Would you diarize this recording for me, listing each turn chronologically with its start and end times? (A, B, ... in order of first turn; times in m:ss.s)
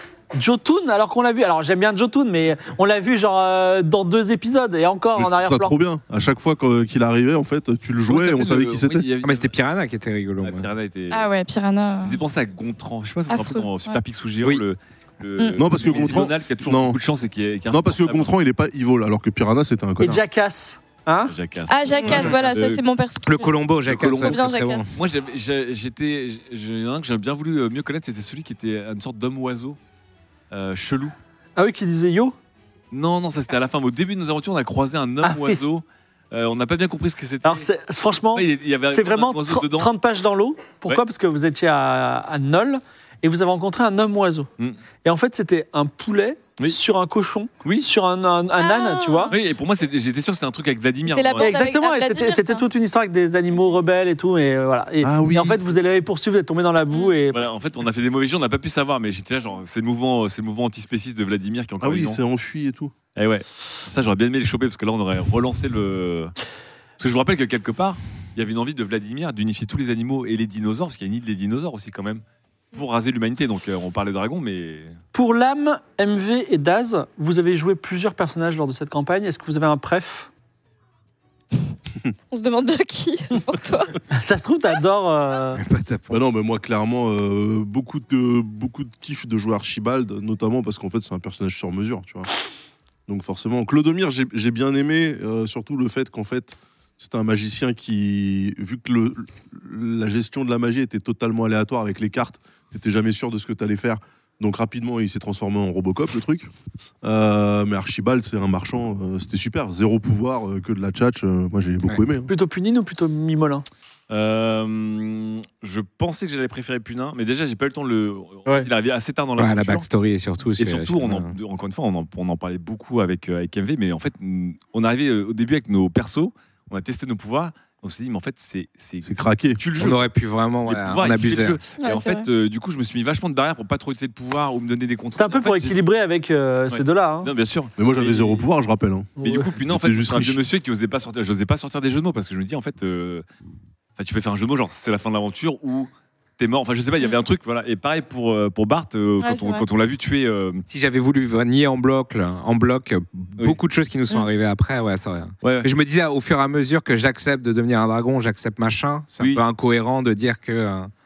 0:00.3-0:05.8 A
0:05.2-0:09.1 B
0:08.0-0:09.5 C
0:09.2-0:10.7 D
0:10.4-0:11.3 C
0:11.1-0:12.2 E
0:12.0-0:18.4 C
0:13.3-0:14.0 E
0:15.4-0:15.7 E
0:15.6-0:17.0 B
0:17.7-0:20.2 B
0:20.0-0:21.3 A
0:21.3-0:22.8 C
0:21.7-0:24.9 E
0:22.1-0:22.3 D
0:23.2-0:24.9 D
0:23.9-0:29.8 C
0:30.5-0:31.2 C
0:31.6-0:32.4 A
0:32.9-0:37.7 C
0:35.2-0:35.6 A
0:37.4-0:44.5 A
0:38.4-0:39.9 C
0:45.0-0:49.3 A
0:48.6-0:49.4 E
0:49.3-0:51.6 C
0:51.1-0:52.6 E
0:51.4-0:57.4 A
0:55.0-0:55.7 B
0:57.3-1:02.2 C
1:01.8-1:02.9 B
1:03.2-1:06.3 C
1:07.0-1:12.2 C
1:12.7-1:15.0 C
1:15.1-1:20.3 A
1:22.3-1:24.0 E
1:24.1-1:25.6 A
1:25.6-1:26.2 D
1:26.1-1:32.3 B
1:33.1-1:46.5 B
1:47.0-1:52.3 B
1:52.3-1:53.7 A
1:54.1-1:59.9 C
1:59.4-2:01.4 D
2:00.6-2:10.1 C
2:09.0-2:09.6 B
2:09.8-2:11.6 D
2:10.7-2:15.8 C
2:11.8-2:12.3 E
2:15.2-2:17.3 A
2:16.7-2:18.5 C
2:17.8-2:20.4 B
2:19.2-2:19.5 A
2:19.2-2:23.2 C
2:24.0-2:30.6 C
2:29.2-2:29.7 E
2:30.7-2:40.9 D
2:35.4-2:35.7 C